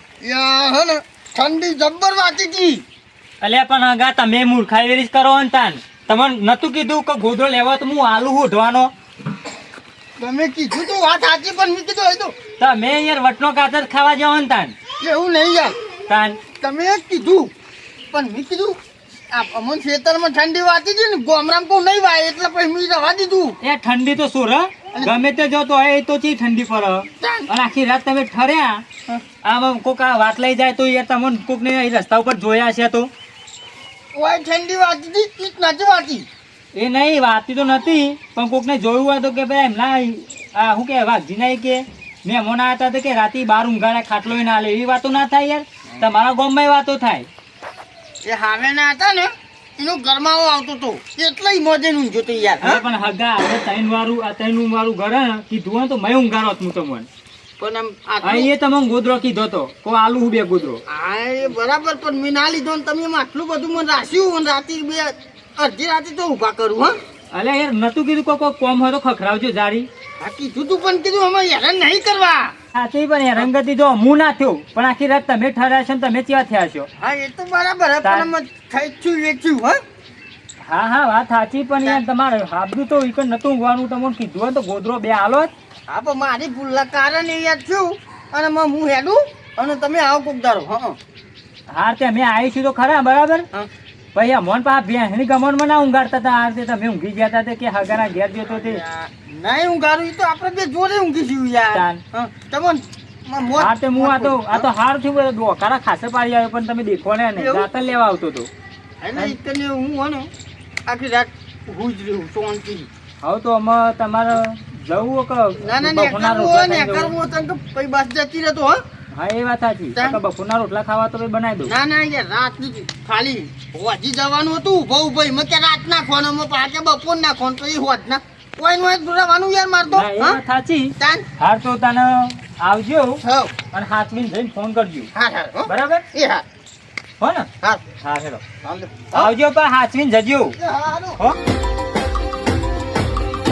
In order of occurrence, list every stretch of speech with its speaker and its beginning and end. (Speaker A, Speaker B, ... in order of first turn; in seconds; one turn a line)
Speaker A: 0.2-2.8
Speaker B: 3.4-8.9
Speaker A: 10.2-12.3
Speaker B: 12.6-14.8
Speaker A: 15.0-15.8
Speaker B: 16.1-16.4
Speaker A: 16.5-17.5
Speaker A: 18.1-18.8
Speaker A: 19.3-23.6
Speaker B: 23.6-28.8
Speaker A: 24.9-25.2
Speaker A: 27.2-27.5
Speaker B: 29.4-33.1
Speaker A: 34.1-36.3
Speaker B: 36.8-47.3
Speaker A: 48.2-52.8
Speaker B: 52.6-57.1
Speaker A: 57.6-58.5
Speaker B: 58.2-60.8
Speaker A: 60.9-67.0
Speaker B: 67.3-69.9
Speaker A: 70.2-72.5
Speaker B: 72.7-76.9
Speaker A: 77.0-79.8
Speaker B: 78.0-78.3
Speaker B: 80.7-85.5
Speaker A: 85.9-91.0
Speaker B: 91.7-93.5
Speaker B: 94.1-98.8
Speaker A: 98.5-104.7
Speaker B: 101.7-102.0
Speaker B: 103.6-108.5
Speaker A: 107.4-107.7
Speaker A: 109.0-110.3
Speaker A: 110.9-112.9
Speaker B: 113.2-117.1
Speaker A: 115.6-118.8
Speaker B: 119.1-121.7
Speaker A: 121.7-130.4
Speaker B: 129.9-135.1
Speaker A: 131.0-131.2
Speaker A: 133.2-133.6
Speaker A: 135.1-136.4
Speaker B: 135.7-136.1
Speaker B: 137.2-138.4
Speaker A: 138.6-139.3
Speaker B: 139.1-140.6
Speaker A: 140.6-141.2